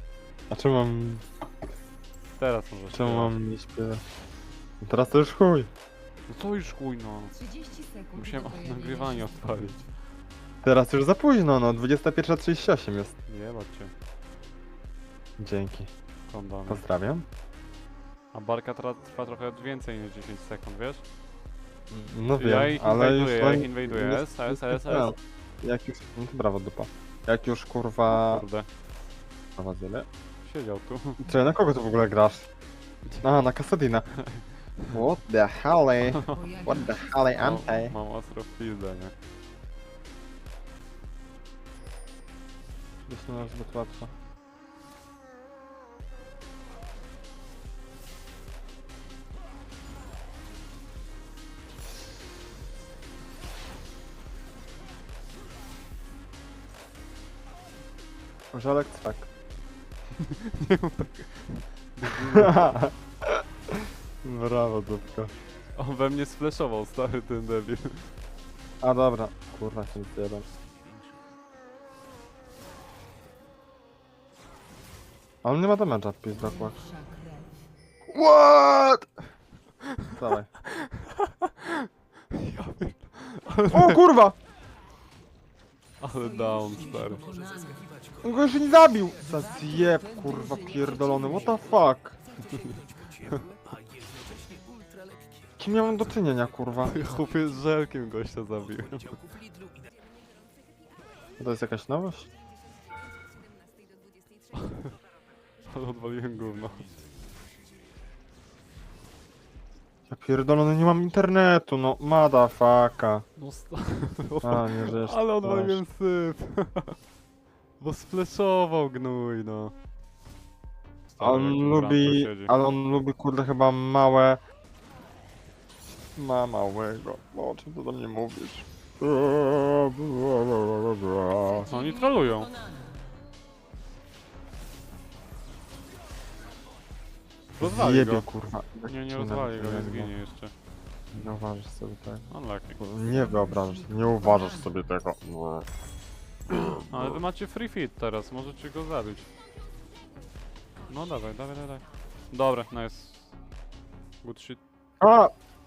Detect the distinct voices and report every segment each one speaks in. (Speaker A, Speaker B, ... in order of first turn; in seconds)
Speaker A: 0.5-1.2, 2.9-4.0, 4.8-5.7, 10.6-13.1, 15.4-15.9, 16.7-17.2, 21.9-28.4, 29.6-30.1, 31.2-32.5, 33.2-34.1, 34.9-37.9, 43.1-44.1, 58.5-59.3, 62.3-65.3, 68.8-70.5, 75.4-76.8, 78.1-79.1, 80.1-80.5, 83.7-84.3, 88.2-92.2, 95.6-97.0, 101.4-102.3, 110.1-113.2, 114.4-115.8, 121.2-124.4, 126.2-131.7, 137.6-140.1, 141.1-145.6, 146.5-147.1, 155.0-155.3
Speaker B: 2.4-3.3, 6.3-7.3, 8.1-9.8, 13.3-13.9, 16.3-16.8, 18.3-21.0, 22.4-25.1, 28.1-28.7, 30.4-31.2, 34.2-35.0, 36.0-36.6, 37.4-39.1, 60.5-62.8, 65.8-68.0, 80.8-84.0, 86.0-87.3, 92.4-93.4, 96.8-99.2, 105.7-106.9, 113.4-116.9, 117.8-119.7, 121.1-122.5, 131.7-132.5, 137.6-138.2, 138.9-140.5, 142.3-142.8, 146.9-149.3, 150.9-153.3, 154.2-154.6
Speaker C: 7.3-9.8, 36.3-37.8, 76.4-77.5, 86.2-87.8, 89.2-91.7, 131.4-133.0, 143.1-144.7